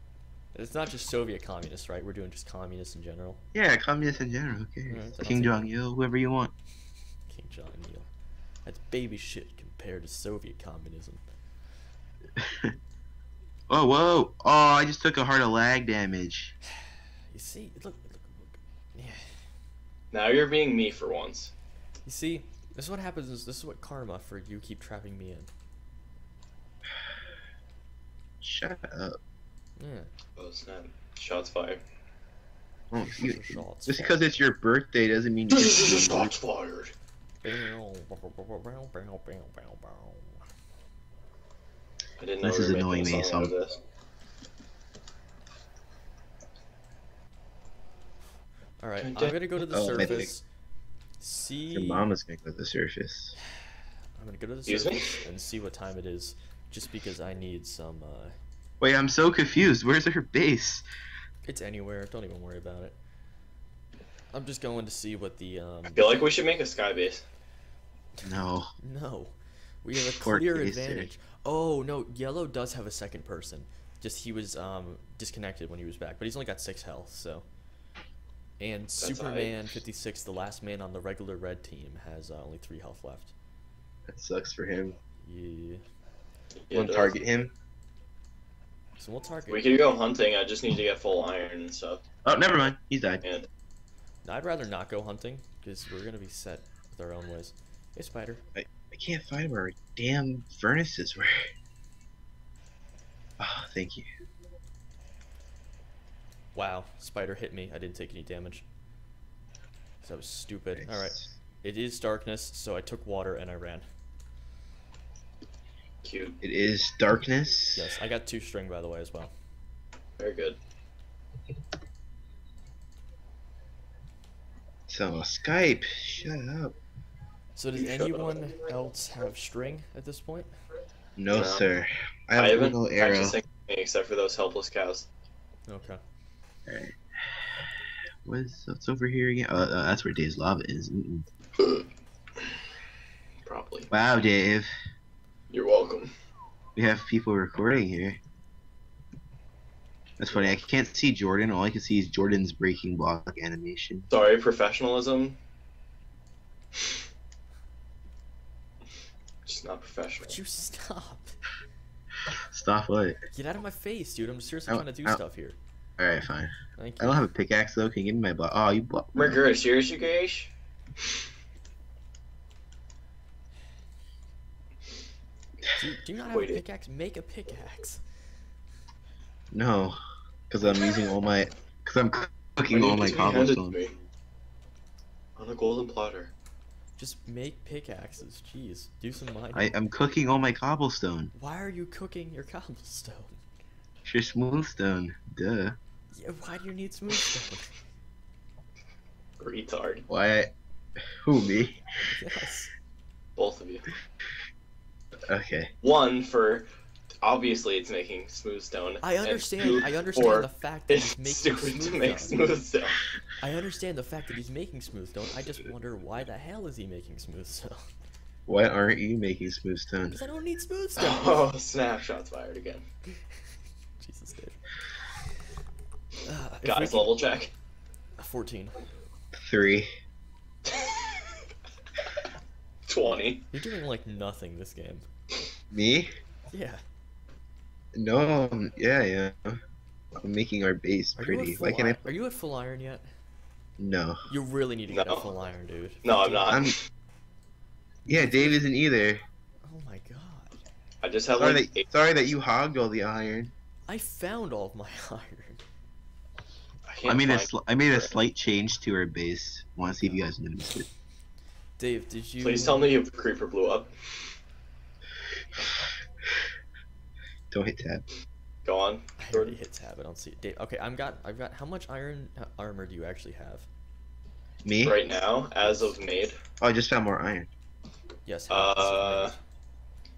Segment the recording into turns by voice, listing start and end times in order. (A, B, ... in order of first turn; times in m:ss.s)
0:00.5-0:03.4 A
0:03.5-0:06.5 B
0:04.9-0:05.7 A
0:07.3-0:08.1 A
0:08.6-0:11.2 A
0:12.4-0:12.7 B
0:13.7-0:16.5 B
0:17.3-0:19.2 A
0:20.1-0:21.5 C
0:22.0-0:25.5 A
0:28.4-0:29.2 B
0:29.8-0:30.1 A
0:30.4-0:31.8 C
0:32.9-0:36.3 B
0:33.0-0:34.3 A
0:35.5-0:36.9 C
0:37.4-0:40.4 A
0:42.2-0:43.8 C
0:42.4-0:43.5 B
0:48.8-0:50.4 A
0:49.0-0:49.4 C
0:49.7-0:50.3 B
0:51.2-0:52.1 A
0:51.7-0:53.4 B
0:54.2-0:58.4 A
0:54.7-0:55.2 C
0:58.8-1:00.8 B
1:01.4-1:03.0 A
1:04.3-1:06.1 A
1:05.9-1:07.2 C
1:08.2-1:08.7 B
1:08.8-1:17.4 A
1:10.2-1:11.1 B
1:18.6-1:23.3 A
1:19.0-1:19.8 C
1:24.1-1:25.0 B
1:25.2-1:25.8 A
1:26.7-1:27.2 C
1:26.7-1:27.5 B
1:29.0-1:29.8 A
1:29.5-1:32.0 C
1:32.2-1:33.2 B
1:34.2-1:38.4 A
1:38.6-1:41.3 B
1:43.4-1:44.1 B
1:46.5-1:48.6 A
1:50.0-1:53.8 A
1:50.8-1:51.4 B
1:56.0-1:56.4 C
1:56.4-1:57.9 B
1:57.7-1:59.3 A
2:00.2-2:00.6 C
2:04.9-2:06.7 B
2:07.6-2:10.5 A
2:07.8-2:08.5 C
2:11.2-2:13.4 B
2:11.3-2:11.7 C
2:12.4-2:15.1 C
2:15.7-2:16.0 A
2:16.6-2:17.6 B
2:18.2-2:21.2 B
2:21.6-2:21.9 C
2:23.4-2:23.9 C
2:23.9-2:24.7 B
2:25.5-2:26.1 C
2:26.8-2:28.2 B
2:30.2-2:34.1 B
2:30.3-2:30.6 C
2:34.1-2:35.4 C
2:39.4-2:40.4 C
2:40.2-2:41.3 A
2:42.3-2:43.2 B
2:43.3-2:45.6 A
2:44.7-2:45.2 B
2:46.0-2:49.4 B
2:46.8-2:47.3 A
2:49.1-2:50.5 C
2:55.7-2:58.0 A
2:56.2-2:56.6 C
2:59.5-3:00.0 B
3:00.5-3:03.8 B
3:02.7-3:03.9 C
3:05.4-3:06.3 C
3:07.0-3:09.7 A
3:09.5-3:11.3 B
3:11.3-3:13.4 A
3:14.0-3:15.8 B
3:16.1-3:17.7 A
3:19.4-3:20.0 C
3:20.1-3:20.5 B
3:21.2-3:21.8 B
3:22.1-3:22.7 A
3:23.4-3:23.9 C
3:25.3-3:25.7 B
3:25.8-3:26.6 C
3:27.2-3:33.1 C
3:29.0-3:32.5 A
3:33.4-3:37.9 A
3:38.5-3:40.2 B
3:40.1-3:41.4 A
3:41.0-3:42.8 C
3:44.0-3:44.6 A
3:46.2-3:47.2 A
3:46.6-3:47.5 C
3:48.2-3:48.8 A
3:49.4-3:49.9 B
3:50.6-3:51.4 C
3:52.9-3:53.5 C
3:53.5-3:55.0 A
3:55.7-3:56.1 B
3:56.5-3:56.8 A
3:57.9-3:59.6 B
4:00.2-4:02.1 B
4:01.2-4:03.0 A
4:03.8-4:04.2 B
4:04.3-4:06.6 A
4:04.9-4:05.3 C
4:06.0-4:06.8 C
4:06.5-4:06.7 B
4:08.0-4:09.2 B
4:08.1-4:08.6 A
4:09.6-4:10.6 A
4:11.0-4:11.8 C
4:11.3-4:13.5 B
4:13.9-4:15.6 A
4:16.8-4:18.1 C
4:17.0-4:20.9 B
4:21.8-4:23.0 A
4:22.4-4:23.9 C
4:27.5-4:28.0 B
4:28.6-4:29.6 C
4:29.2-4:33.7 A
4:34.6-4:35.0 B
4:34.8-4:36.4 C
4:35.6-4:36.0 A
4:36.6-4:37.5 B
4:38.2-4:39.4 A
4:38.5-4:39.3 C